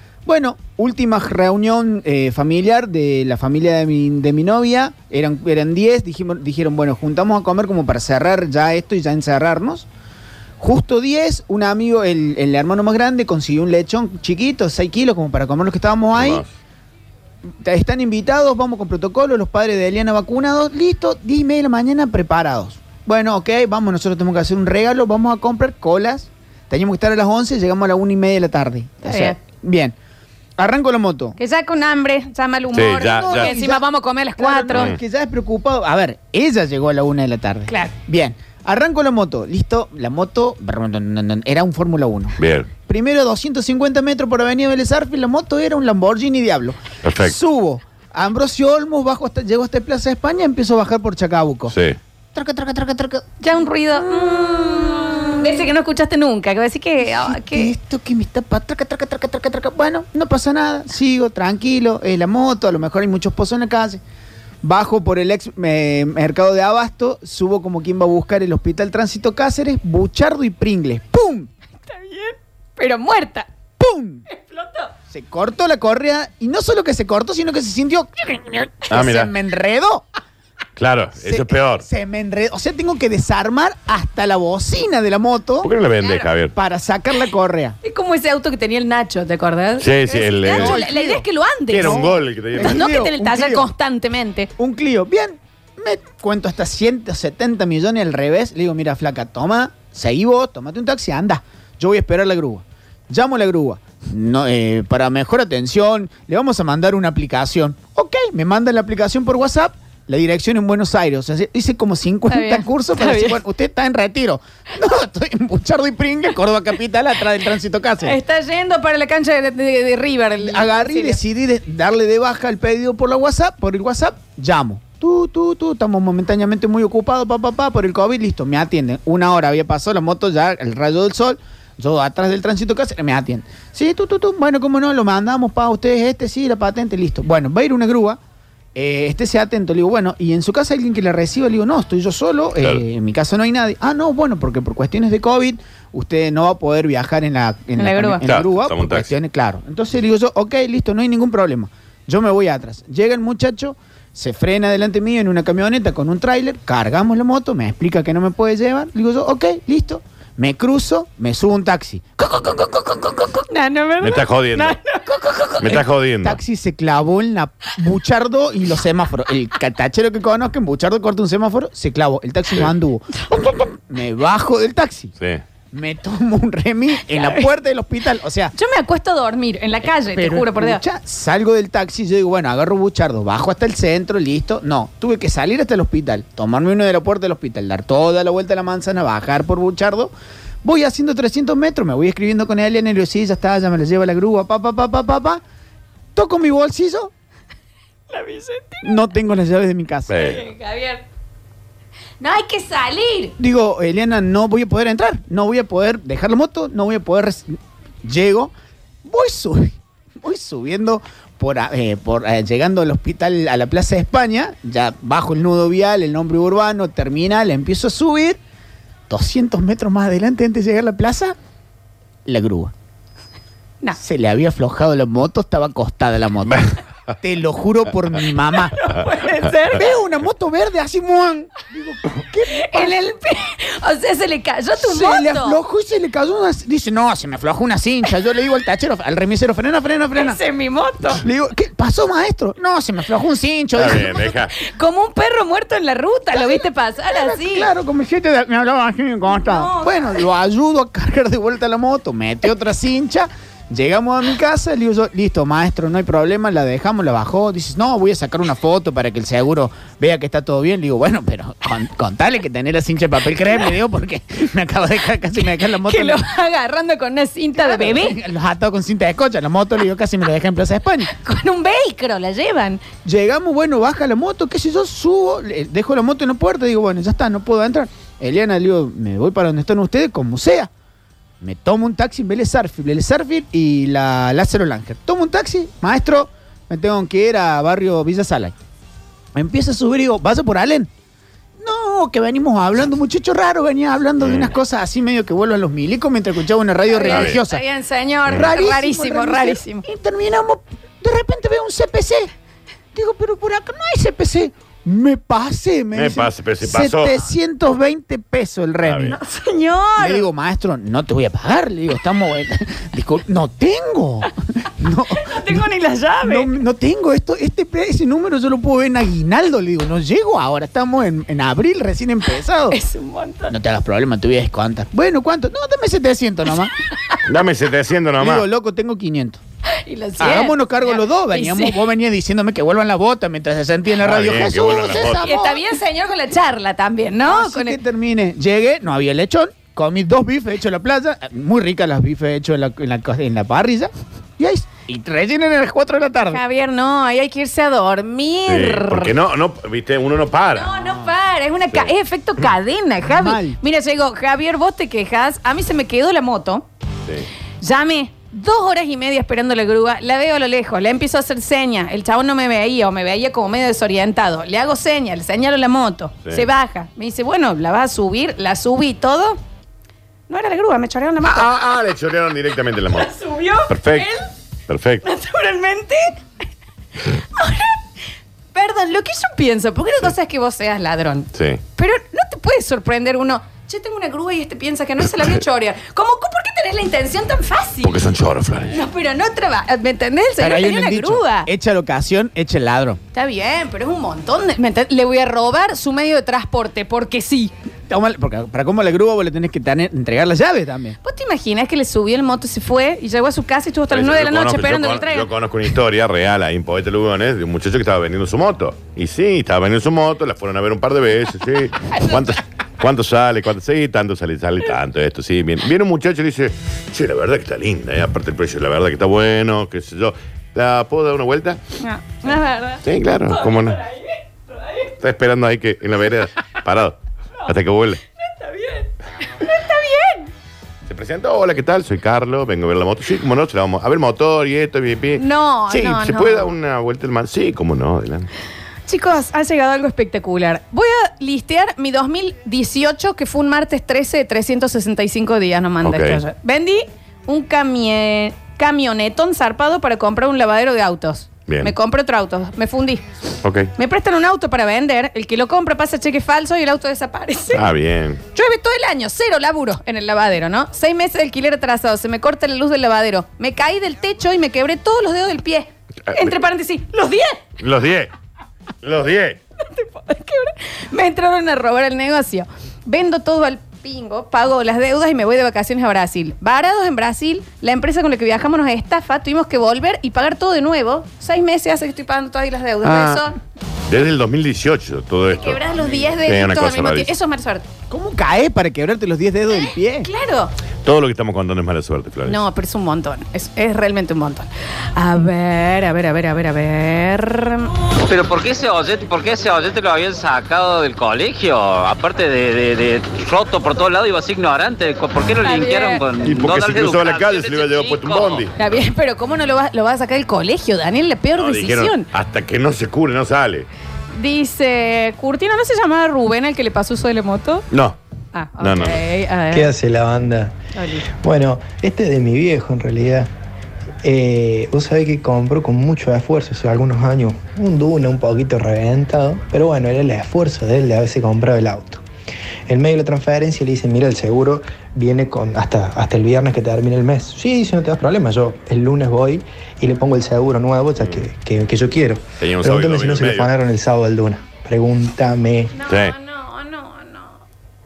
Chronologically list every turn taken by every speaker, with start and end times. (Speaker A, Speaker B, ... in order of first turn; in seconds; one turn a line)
Speaker A: 0.3-9.9
Speaker A: 10.6-16.4
Speaker B: 16.1-16.5
Speaker A: 17.5-29.9
Speaker C: 29.0-29.4
Speaker A: 30.6-31.4
Speaker C: 31.4-34.9
Speaker B: 32.7-33.5
Speaker A: 33.3-33.8
Speaker A: 34.4-51.8
Speaker C: 37.7-37.9
Speaker B: 42.4-42.7
Speaker B: 47.0-47.4
Speaker B: 51.7-52.0
Speaker A: 52.3-53.4
Speaker C: 53.4-57.7
Speaker A: 54.0-55.4
Speaker A: 57.0-64.0
Speaker A: 64.6-71.5
Speaker C: 71.9-73.5
Speaker A: 73.8-74.3
Speaker C: 74.3-74.9
Speaker A: 75.1-80.1
Speaker B: 78.9-79.3
Speaker B: 80.8-81.9
Speaker A: 81.2-85.7
Speaker B: 85.6-86.5
Speaker C: 86.0-86.3
Speaker A: 86.5-87.8
Speaker C: 87.8-94.5
Speaker B: 89.8-90.8
Speaker A: 90.5-91.3
Speaker B: 91.7-92.9
Speaker A: 91.8-93.7
Speaker A: 94.6-118.2
Speaker C: 112.3-113.4
Speaker C: 118.0-121.2
Speaker A: 120.4-138.2
Speaker A: 138.8-163.3
Speaker C: 147.8-148.2
Speaker B: 148.2-149.1
Speaker C: 163.4-165.8
Speaker B: 164.0-164.8
Speaker B: 165.6-166.4
Speaker A: 165.7-175.1
Speaker A: 175.7-178.5
Speaker C: 177.1-177.5
Speaker C: 178.5-180.8
Speaker A: 180.2-195.4
Speaker A: 196.2-197.1
Speaker C: 198.1-199.0
Speaker A: 198.8-200.3
Speaker B: 200.1-200.4
Speaker C: 200.1-201.0
Speaker C: 202.2-203.4
Speaker A: 203.4-208.5
Speaker A: 209.0-218.4
Speaker A: 219.1-221.4
Speaker A: 222.3-222.7
Speaker A: 224.0-228.8
Speaker B: 226.5-227.2
Speaker C: 228.7-229.8
Speaker A: 229.7-233.0
Speaker C: 232.5-235.6
Speaker A: 234.8-240.4
Speaker C: 240.2-241.2
Speaker A: 241.2-244.2
Speaker B: 243.8-244.5
Speaker C: 243.9-247.7
Speaker A: 246.3-266.2
Speaker C: 249.3-250.3
Speaker C: 265.7-268.2
Speaker A: 267.6-271.1
Speaker C: 271.1-272.9
Speaker A: 273.1-280.7
Speaker A: 281.4-288.5
Speaker A: 289.3-290.9
Speaker A: 291.6-297.6
Speaker B: 294.2-294.5
Speaker C: 296.9-299.9
Speaker B: 297.1-297.4
Speaker A: 298.3-302.3
Speaker A: 302.9-309.2
Speaker B: 305.9-307.2
Speaker B: 308.8-309.1
Speaker C: 309.1-310.3
Speaker A: 310.0-315.6
Speaker C: 315.2-316.5
Speaker A: 316.2-322.8
Speaker C: 322.7-323.5
Speaker A: 323.5-326.7
Speaker C: 326.9-327.2
Speaker B: 327.3-328.5
Speaker A: 328.2-329.4
Speaker C: 329.7-331.8
Speaker A: 330.2-335.6
Speaker B: 334.0-335.2
Speaker C: 335.0-337.8
Speaker A: 337.2-346.4
Speaker C: 346.3-349.1
Speaker B: 348.5-350.7
Speaker C: 350.5-356.7
Speaker A: 350.8-351.1
Speaker A: 353.1-353.6
Speaker C: 357.6-369.4
Speaker C: 370.3-371.5
Speaker B: 371.2-373.1
Speaker C: 372.9-374.3
Speaker B: 373.7-374.1
Speaker B: 374.7-375.0
Speaker C: 375.0-376.2
Speaker C: 377.1-377.8
Speaker C: 378.5-388.0
Speaker B: 381.4-381.6
Speaker B: 387.8-388.8
Speaker C: 388.7-391.5
Speaker A: 390.4-393.0
Speaker C: 393.1-397.5
Speaker A: 397.9-401.0
Speaker C: 401.0-405.3
Speaker B: 403.9-421.6
Speaker C: 421.8-424.9
Speaker B: 422.8-423.8
Speaker B: 425.0-428.0
Speaker C: 428.2-430.3
Speaker B: 430.9-438.3
Speaker C: 435.2-436.5
Speaker C: 438.9-453.1
Speaker B: 445.8-446.2
Speaker B: 451.5-451.7
Speaker B: 453.4-453.7
Speaker C: 453.8-457.6
Speaker B: 457.5-458.2
Speaker C: 458.3-467.4
Speaker B: 466.1-466.4
Speaker B: 467.6-468.1
Speaker B: 468.8-469.4
Speaker C: 469.6-483.4
Speaker B: 482.8-483.2
Speaker B: 483.9-485.6
Speaker C: 485.3-487.7
Speaker B: 486.2-487.1
Speaker A: 487.9-490.1
Speaker C: 489.5-490.5
Speaker B: 490.8-492.4
Speaker C: 492.3-497.7
Speaker D: 498.1-508.5
Speaker C: 505.4-506.0
Speaker B: 506.2-508.8
Speaker C: 508.6-512.1
Speaker B: 511.4-513.7
Speaker C: 514.2-517.7
Speaker B: 517.7-518.0
Speaker C: 518.3-519.7
Speaker B: 518.6-519.0
Speaker E: 519.5-520.5
Speaker C: 520.7-521.1
Speaker E: 521.2-523.3
Speaker E: 524.0-532.0
Speaker E: 532.7-545.8
Speaker B: 541.0-541.2
Speaker B: 542.4-543.5
Speaker C: 545.7-547.4
Speaker B: 545.9-546.1